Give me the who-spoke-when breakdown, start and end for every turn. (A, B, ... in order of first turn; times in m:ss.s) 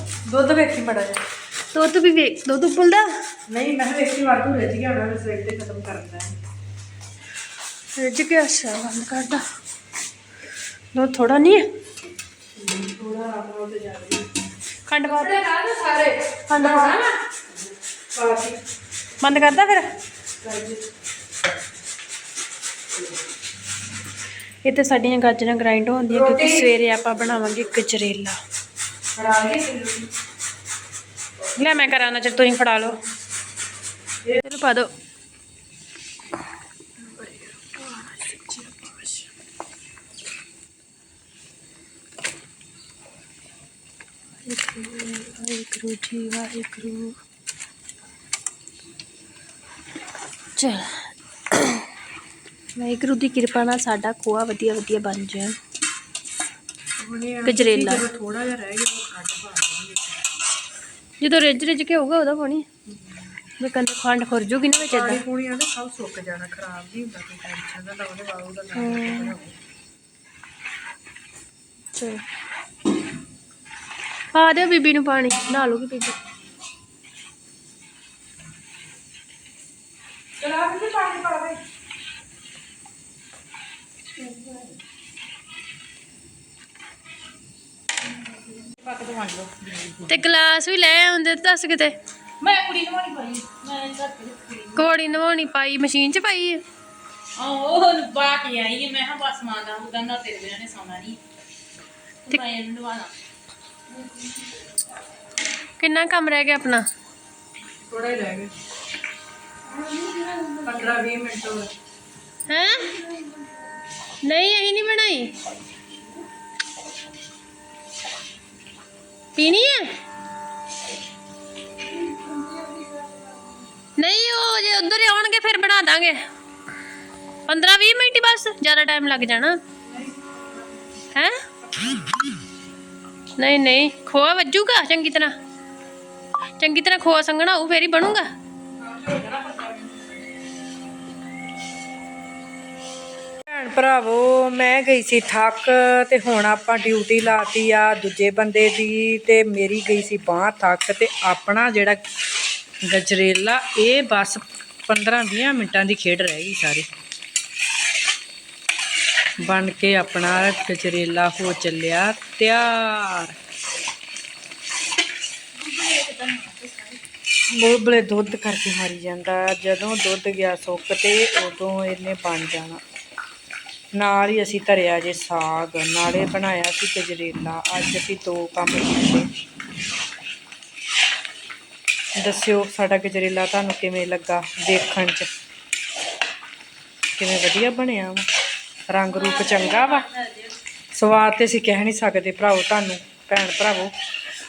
0:00.3-0:01.2 A
0:01.7-0:03.1 B
0:03.5-0:06.3 A
0:08.0-0:09.4 B
0:10.9-0:11.6 B
0:12.6-0:14.2 A
0:14.9-0:15.4 B
0:15.0-0:17.2 A
0:16.5-0:17.0 B
0:18.1-0:18.6 A
0:19.2-0:19.8 B
0:20.4-0:20.8 A
0:24.6-0:28.4 B
0:26.1-0:26.8 A
0:29.1-0:30.0 A
0:31.6-0:32.9 B
0:34.4-0:34.9 B
0:37.1-0:39.2 B
0:44.4-0:47.2 B
0:50.6-0:51.8 B
0:52.8-0:55.5 B
0:57.0-1:00.2 A
0:57.4-0:58.0 B
1:01.2-1:02.6 B
1:02.9-1:03.2 A
1:03.6-1:05.2 B
1:04.7-1:09.5 A
1:08.8-1:09.3 B
1:11.9-1:12.2 B
1:14.3-1:16.2 B
1:20.4-1:21.6 A
1:24.3-1:24.6 A
1:28.6-1:30.2 C
1:30.1-1:32.0 B
1:32.4-1:34.9 C
1:34.8-1:36.6 B
1:37.4-1:41.2 C
1:42.2-1:43.1 C
1:45.8-1:46.8 B
1:47.8-1:48.5 A
1:49.7-1:51.0 B
1:50.6-1:51.7 A
1:52.5-1:52.9 B
1:52.8-1:53.6 A
1:54.2-1:55.3 B
1:59.4-1:59.9 B
2:01.9-2:03.6 A
2:04.0-2:06.2 B
2:07.5-2:09.6 B
2:09.8-2:10.7 A
2:11.1-2:11.4 B
2:11.6-2:12.2 A
2:13.4-2:15.3 B
2:16.6-2:18.3 B
2:18.8-2:20.0 A
2:23.5-2:32.0 A
2:32.8-2:36.8 A
2:39.4-2:43.4 A
2:45.6-2:47.0 C
2:47.5-2:52.8 A
2:53.9-2:59.3 A
3:02.2-3:05.3 A
3:07.2-3:08.2 A
3:08.9-3:10.0 A
3:09.1-3:10.5 B
3:10.9-3:13.9 A